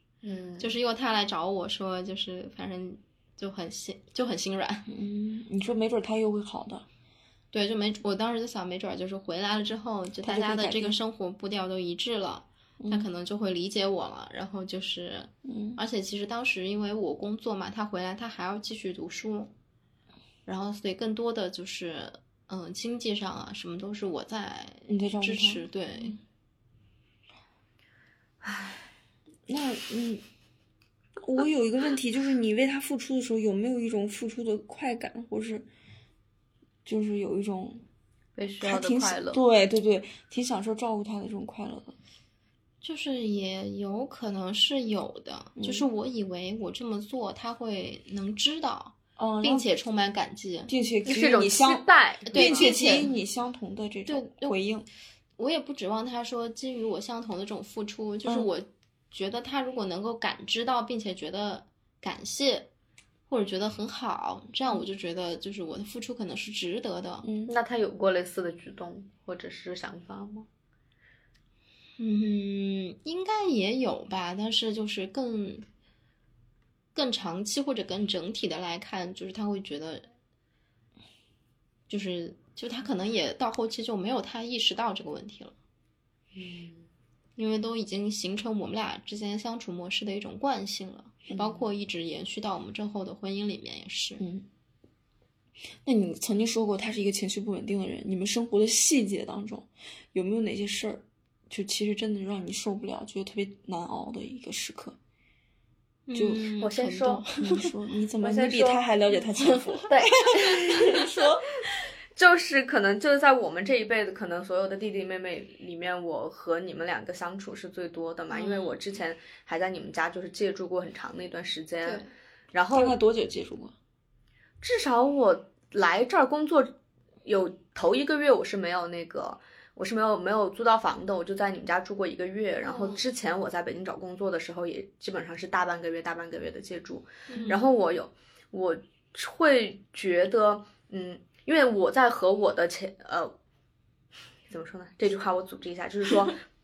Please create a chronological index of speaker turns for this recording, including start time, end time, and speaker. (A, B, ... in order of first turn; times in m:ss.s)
0:00.2-0:00.7 A
0:00.6-0:04.9 B
0:04.9-0:06.9 C
0:07.5-0:19.5 B
0:10.2-0:11.0 C
0:12.8-0:13.1 C
0:15.4-0:15.8 C
0:20.5-0:26.2 B
0:24.9-0:26.2 C
0:28.4-0:28.8 A
0:29.5-0:30.2 C
0:31.2-0:35.7 C
0:36.8-0:37.8 C
0:38.4-0:39.4 A
0:38.6-0:42.0 C
0:42.8-0:50.7 B
0:45.6-0:45.9 C
0:49.2-0:49.6 C
0:50.7-0:54.9 C
0:51.0-0:53.0 A
0:52.3-0:53.1 B
0:54.1-0:54.6 B
0:55.4-1:02.7 B
1:03.3-1:07.3 B
1:07.2-1:07.5 C
1:07.5-1:10.5 A
1:12.0-1:15.6 B
1:16.9-1:20.1 B
1:21.9-1:25.5 B
1:26.4-1:26.8 A
1:27.4-1:34.2 B
1:34.2-1:34.5 C
1:35.8-1:45.0 C
1:46.1-1:47.7 B
1:46.2-1:46.5 C
1:46.6-1:47.3 A
1:47.4-1:51.5 C
1:48.2-1:48.8 A
1:49.4-1:49.8 B
1:49.9-1:51.3 A
1:52.2-2:02.0 A
1:58.3-1:58.8 B
2:01.8-2:02.1 B
2:02.5-2:03.0 A
2:02.7-2:03.7 C
2:04.6-2:06.7 A
2:07.2-2:23.3 A
2:12.6-2:13.0 B
2:17.3-2:17.6 B
2:24.5-2:26.4 A